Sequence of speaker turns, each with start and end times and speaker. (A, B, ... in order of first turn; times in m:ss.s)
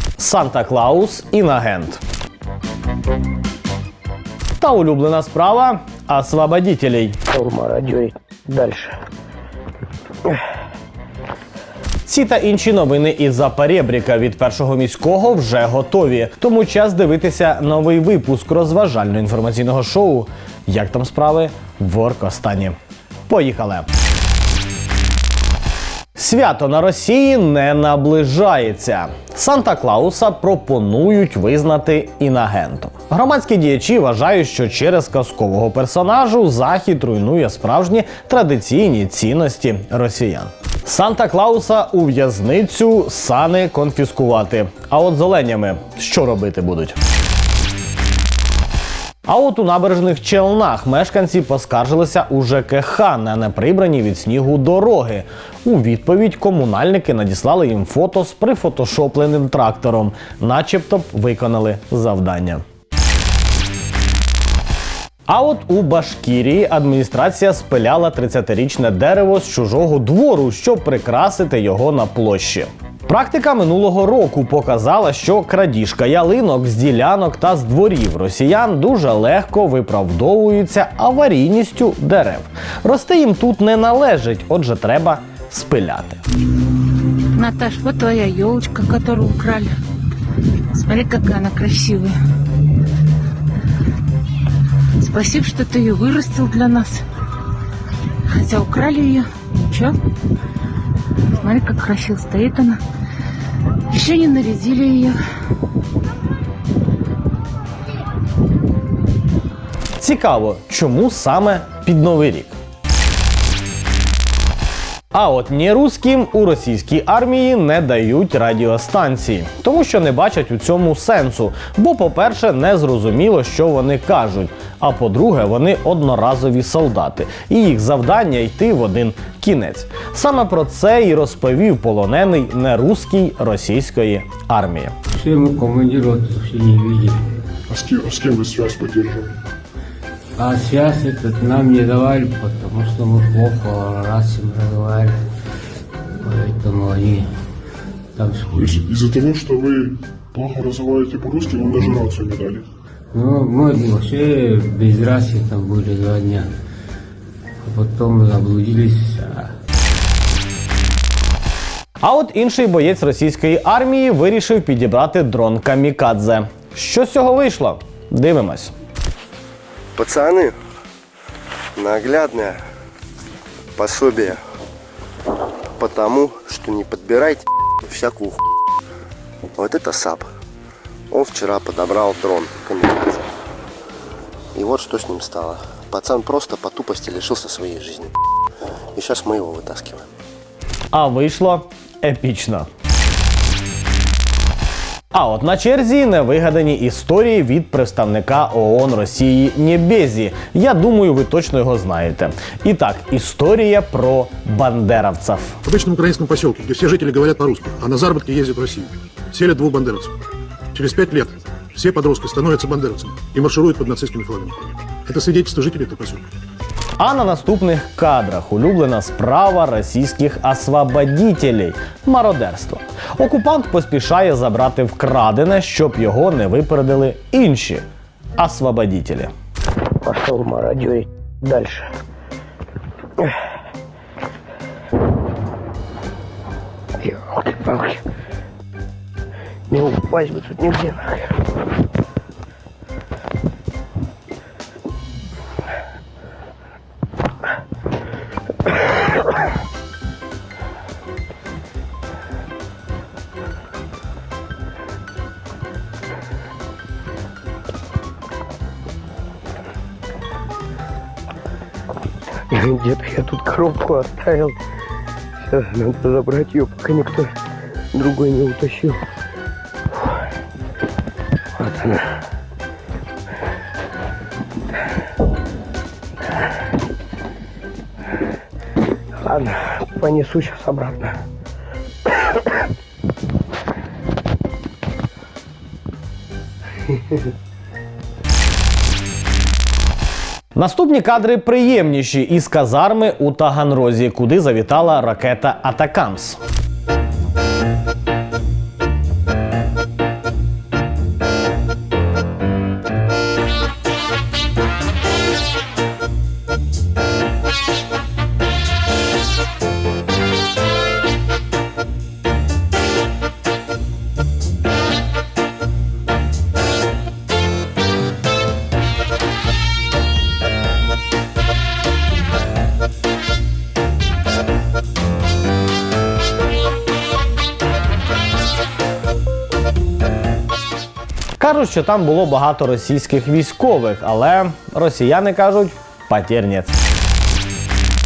0:00.2-0:02.0 A
0:04.6-0:07.2 A
0:07.3-0:09.0 B
0:12.0-0:22.8 A
0:23.3-0:23.9 A
0:26.2-0:47.0 A
0:49.2-1:02.6 A
1:05.3-1:26.2 A
1:27.4-1:29.7 C
1:30.7-1:32.1 C
1:35.0-1:37.0 C
1:38.3-1:39.9 C
1:41.4-1:42.8 C
1:43.9-1:45.2 C
1:50.0-1:52.6 A
1:55.1-2:14.9 A
2:15.1-2:17.3 D
2:17.7-2:19.3 E
2:20.4-2:25.1 D
2:26.2-2:27.3 D
2:28.1-2:28.8 D
2:28.5-2:32.6 E
2:33.1-2:36.5 D
2:37.6-2:39.5 D
2:42.0-2:48.7 A
2:50.0-2:50.5 F
2:51.8-2:52.6 F
2:53.8-2:54.4 F
2:55.8-2:58.4 F
2:59.5-3:00.3 F
3:01.1-3:03.3 F
3:04.5-3:08.1 F
3:08.9-3:10.1 F
3:10.9-3:12.7 A
3:15.1-3:25.6 A
3:25.6-3:30.1 G
3:30.7-3:36.2 G
3:37.0-3:47.8 A
3:48.4-3:49.3 A
3:50.0-3:51.9 B
3:57.0-3:58.0 B
3:59.7-4:01.4 B
4:22.5-4:24.5 B
4:25.4-4:27.3 B
4:27.9-4:29.0 B
4:31.6-4:32.1 B
4:39.2-4:41.2 B
4:50.5-4:56.4 A
5:31.4-5:36.8 A